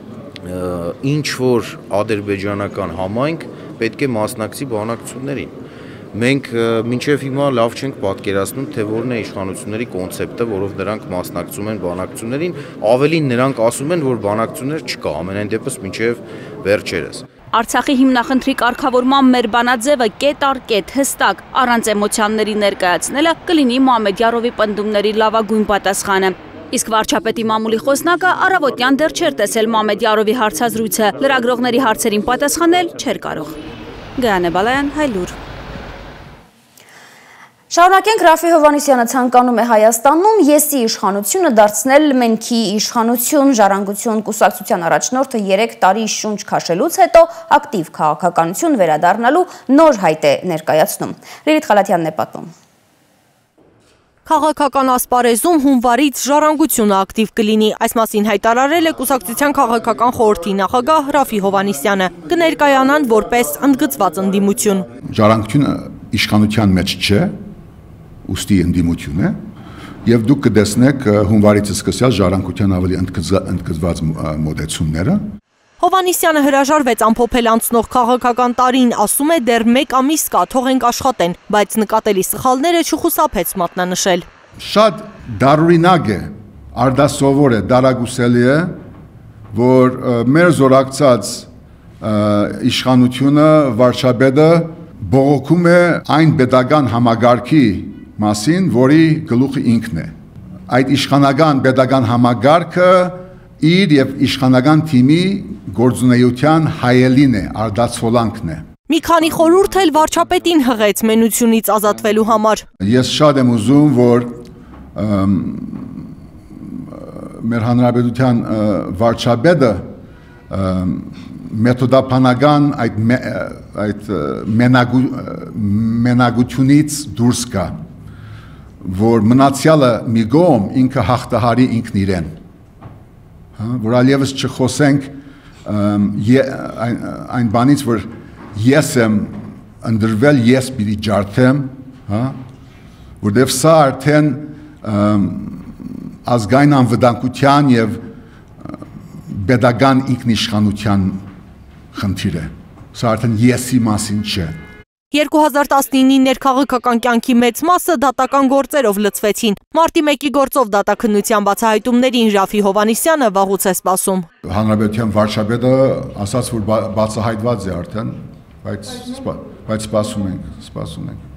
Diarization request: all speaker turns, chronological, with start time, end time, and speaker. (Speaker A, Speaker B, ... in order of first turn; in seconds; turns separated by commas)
Speaker A: 0.5-5.5, Speaker A: 6.1-17.2, Speaker B: 17.5-33.6, Speaker B: 34.2-35.4, Speaker C: 37.7-52.5, Speaker D: 54.3-64.9, Speaker E: 65.1-67.4, Speaker E: 68.2-69.4, Speaker E: 70.0-75.2, Speaker D: 75.8-84.3, Speaker E: 84.6-88.8, Speaker E: 89.5-91.5, Speaker E: 92.0-100.1, Speaker E: 100.7-108.7, Speaker D: 108.9-112.7, Speaker E: 112.8-114.4, Speaker E: 115.0-116.0, Speaker E: 116.9-119.9, Speaker E: 120.5-127.8, Speaker E: 128.8-132.4, Speaker E: 133.6-142.3, Speaker E: 143.2-148.0, Speaker E: 149.3-151.2, Speaker E: 151.9-154.6, Speaker D: 155.1-164.3, Speaker E: 164.4-171.2